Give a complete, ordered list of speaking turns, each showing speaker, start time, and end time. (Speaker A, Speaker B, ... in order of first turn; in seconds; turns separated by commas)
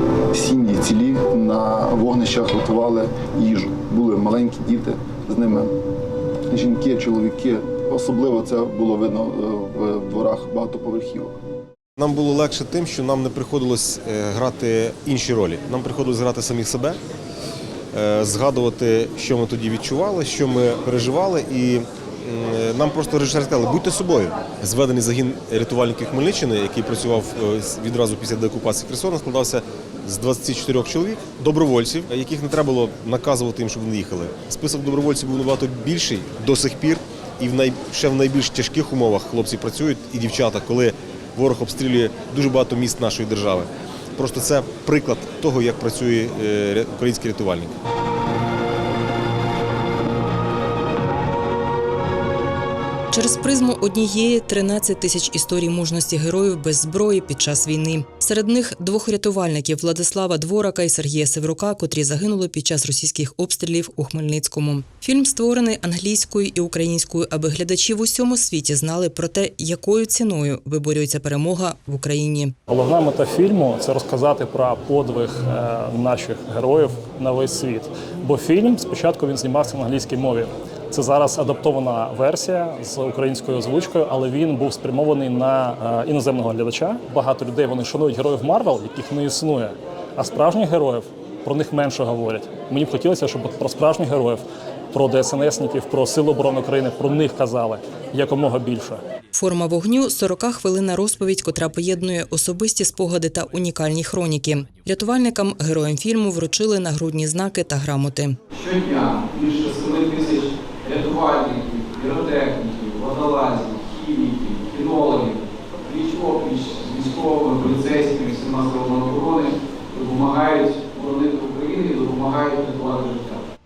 Speaker A: 0.3-5.7, Speaker A: 6.5-11.4, Speaker B: 12.0-17.0, Speaker B: 17.9-47.8, Speaker C: 53.1-72.5, Speaker D: 72.7-99.0, Speaker C: 99.3-108.4, Speaker E: 108.5-123.4